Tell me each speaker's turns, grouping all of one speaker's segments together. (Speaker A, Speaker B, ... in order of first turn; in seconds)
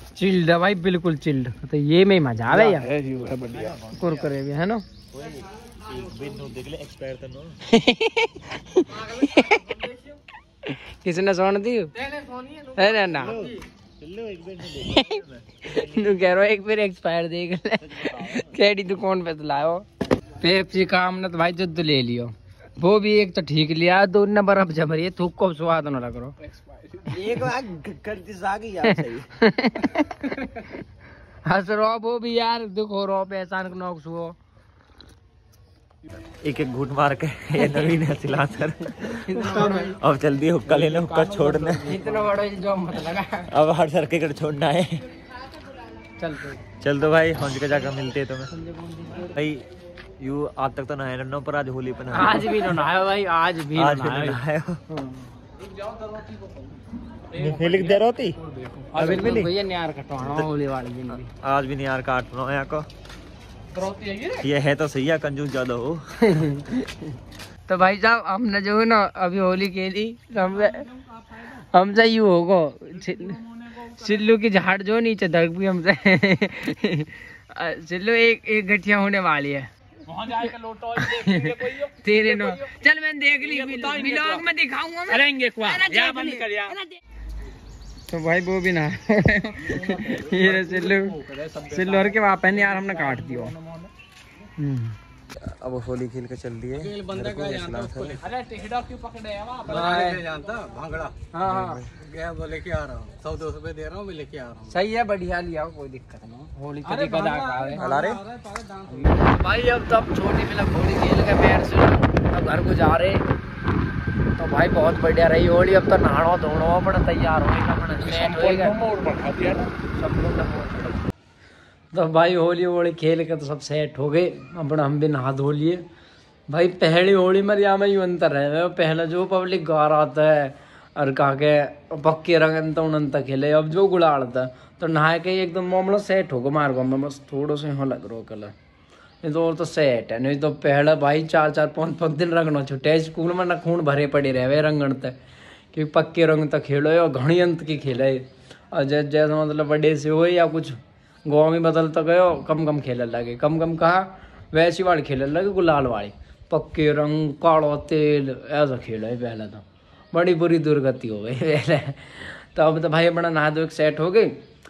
Speaker A: 0.1-2.9, 3.9-4.8, 7.7-9.9, 10.7-13.5, 14.8-19.9, 20.4-26.4, 27.2-27.5, 28.8-30.7, 31.4-34.3, 37.6-37.9, 39.0-40.0, 41.8-43.5, 46.2-46.6, 48.8-49.2, 52.1-55.2, 58.9-61.3, 66.2-67.0, 67.7-86.8, 88.1-93.5, 94.6-95.0, 99.7-100.2, 101.3-101.8, 104.7-107.9, 109.0-113.2, 114.3-118.9, 120.0-121.0, 121.9-125.8, 126.5-138.5, 139.2-145.2, 145.7-164.4
Speaker B: 2.7-3.7, 57.4-57.9, 63.8-64.3, 80.3-81.5, 83.6-84.3, 85.2-86.8, 89.7-92.1, 93.1-93.8, 96.8-101.1, 102.0-104.7, 106.9-109.1, 118.1-119.7
Speaker C: 2.9-4.0, 5.1-7.6, 13.2-16.1, 17.9-18.5, 27.1-29.3, 36.4-42.0, 43.5-45.0, 46.8-48.5, 49.2-49.6, 50.2-52.8, 53.7-54.8, 57.4-58.4, 58.9-59.5, 60.2-60.5, 61.4-62.9, 64.2-66.2, 95.4-98.2, 101.5-101.9, 107.7-108.2